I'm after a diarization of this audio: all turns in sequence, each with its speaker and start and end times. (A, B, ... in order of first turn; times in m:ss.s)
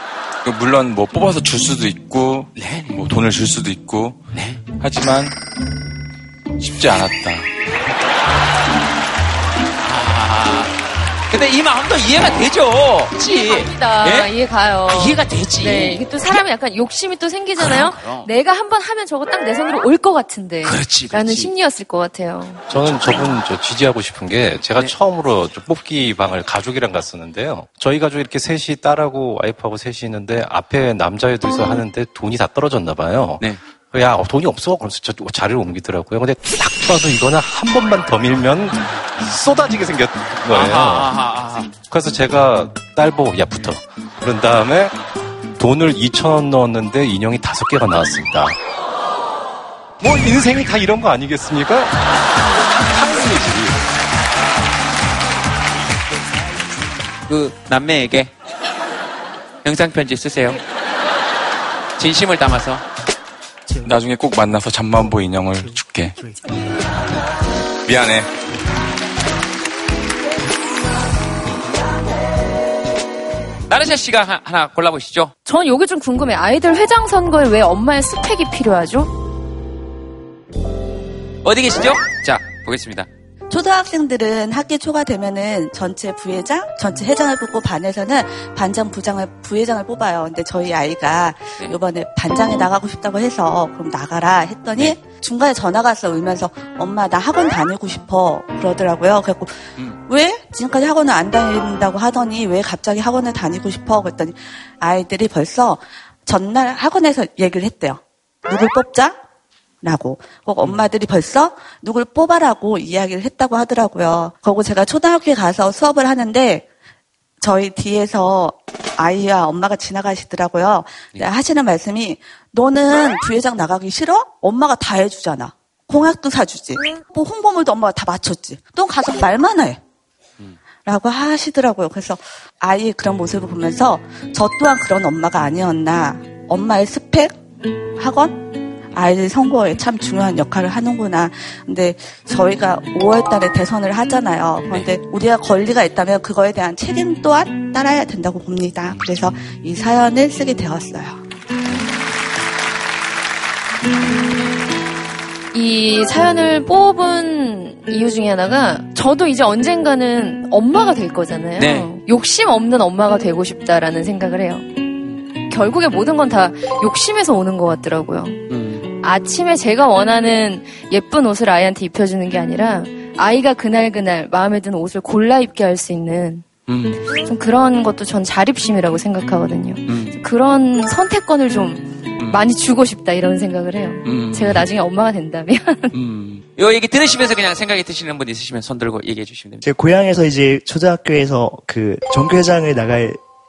0:00.4-0:05.4 A
0:02.6-0:02.9 B
0:04.3-0:04.6 B
0:06.6-0:07.5 A
0:09.8-0:10.7 B
0:11.3-0:14.3 B
0:13.3-0:22.6 C
0:14.9-0:16.0 B
0:17.6-0:18.3 B
0:20.6-0:21.5 B
0:22.7-0:41.1 D
0:40.5-0:41.7 B
0:41.8-0:45.0 D
0:45.6-0:48.6 D
0:50.0-0:51.9 D
0:52.9-0:53.8 D
0:57.3-0:58.3 B
0:59.6-1:00.6 B
1:02.0-1:02.8 B
1:03.8-1:06.2 A
1:07.8-1:08.3 A
1:13.7-1:15.3 B
1:15.5-1:19.1 C
1:21.4-1:23.1 B
1:23.5-1:49.2 E
1:49.8-1:56.7 E
1:57.4-2:09.8 E
2:10.8-2:17.4 E
2:18.0-2:31.2 E
2:35.5-2:44.7 C
2:41.6-2:41.9 B
2:45.5-2:48.4 C
2:48.5-2:48.9 B
2:49.0-2:56.5 C
2:56.7-2:57.0 B
2:57.2-3:06.0 C
2:59.9-3:00.2 B
3:02.2-3:02.4 B
3:04.0-3:04.6 B
3:05.9-3:09.6 B
3:09.6-3:13.2 F